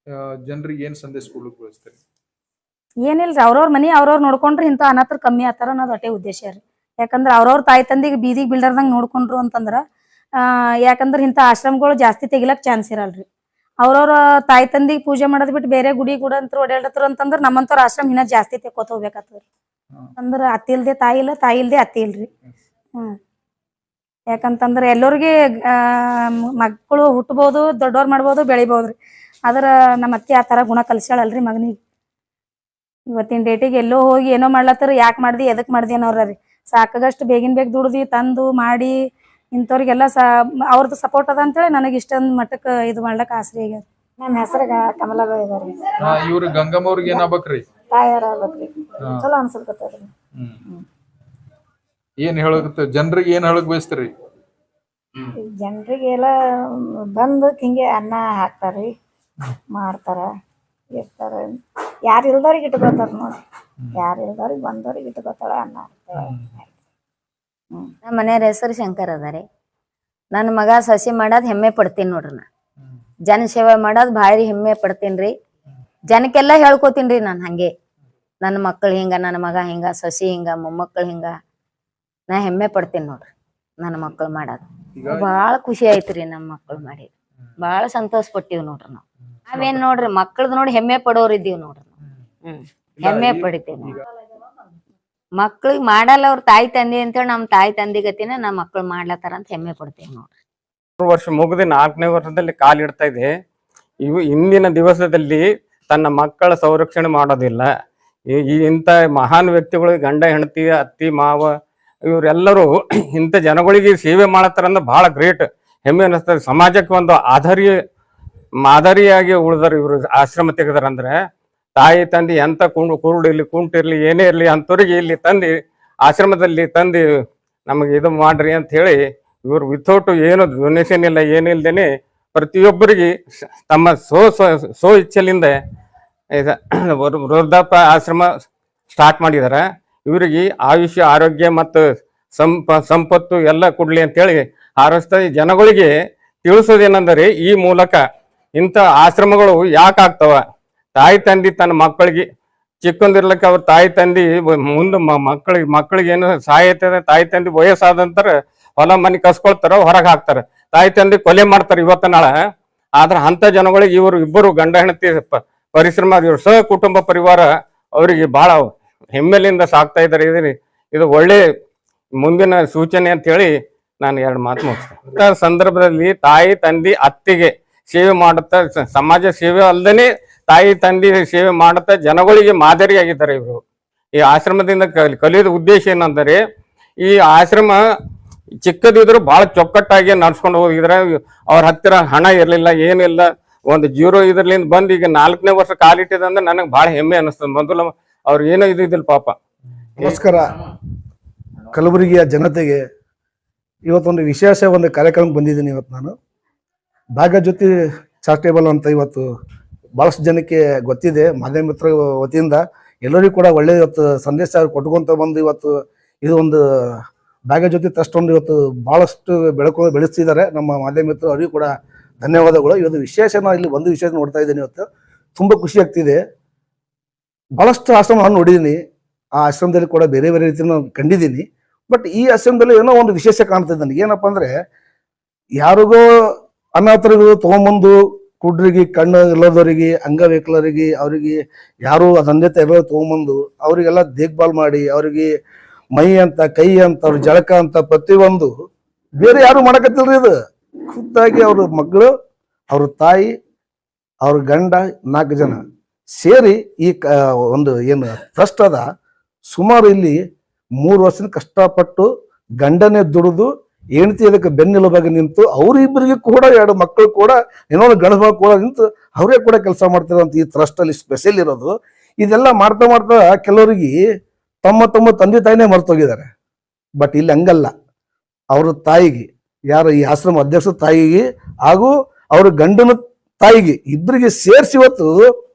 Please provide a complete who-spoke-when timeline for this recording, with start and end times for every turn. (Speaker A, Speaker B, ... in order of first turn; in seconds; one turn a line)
Speaker A: 0.5-2.0
Speaker B: 3.0-9.8
Speaker B: 10.4-13.2
Speaker B: 13.8-19.4
Speaker B: 20.2-22.3
Speaker B: 24.3-31.8
Speaker B: 33.1-39.0
Speaker B: 39.5-43.9
Speaker C: 44.2-46.3
Speaker A: 46.0-47.7
Speaker C: 47.9-50.1
Speaker A: 49.0-49.3
Speaker A: 52.2-54.1
Speaker C: 55.4-58.9
Speaker C: 59.7-60.3
Speaker C: 61.0-61.6
Speaker C: 62.1-63.4
Speaker A: 63.8-64.1
Speaker C: 64.0-66.7
Speaker A: 66.2-66.5
Speaker D: 68.0-69.4
Speaker D: 70.3-72.5
Speaker D: 73.3-75.3
Speaker D: 76.1-77.7
Speaker D: 78.4-81.3
Speaker D: 82.3-91.9
Speaker A: 85.0-85.3
Speaker D: 92.5-94.0
Speaker A: 93.0-94.0
Speaker D: 95.4-100.3
Speaker E: 101.0-103.3
Speaker E: 104.0-107.7
Speaker E: 108.3-111.5
Speaker E: 112.1-117.7
Speaker E: 118.6-121.1
Speaker E: 121.8-125.5
Speaker E: 126.0-127.0
Speaker E: 127.7-133.1
Speaker E: 133.7-135.5
Speaker E: 136.4-138.3
Speaker E: 138.9-141.8
Speaker E: 142.4-145.9
Speaker E: 146.4-148.0
Speaker E: 148.6-150.4
Speaker E: 151.0-152.2
Speaker E: 152.8-162.3
Speaker E: 163.0-167.4
Speaker E: 168.0-171.4
Speaker E: 172.2-183.6
Speaker E: 184.2-186.4
Speaker E: 187.0-187.8
Speaker E: 188.6-199.3
Speaker F: 200.0-200.6
Speaker F: 201.7-202.8
Speaker F: 203.9-206.1
Speaker F: 207.2-209.2
Speaker F: 210.0-215.7
Speaker F: 216.2-216.6
Speaker F: 217.5-221.7
Speaker F: 222.2-224.8
Speaker F: 225.4-226.2
Speaker F: 227.6-228.8
Speaker F: 229.4-234.5
Speaker F: 235.6-236.0
Speaker F: 236.8-245.3
Speaker F: 246.0-248.5
Speaker F: 249.2-250.3
Speaker F: 250.9-252.1
Speaker F: 252.7-253.3
Speaker F: 254.2-255.6
Speaker F: 256.2-258.8
Speaker F: 259.5-260.2
Speaker F: 260.8-262.1
Speaker F: 262.6-273.9
Speaker F: 274.6-276.3
Speaker F: 277.0-277.7
Speaker F: 278.5-285.2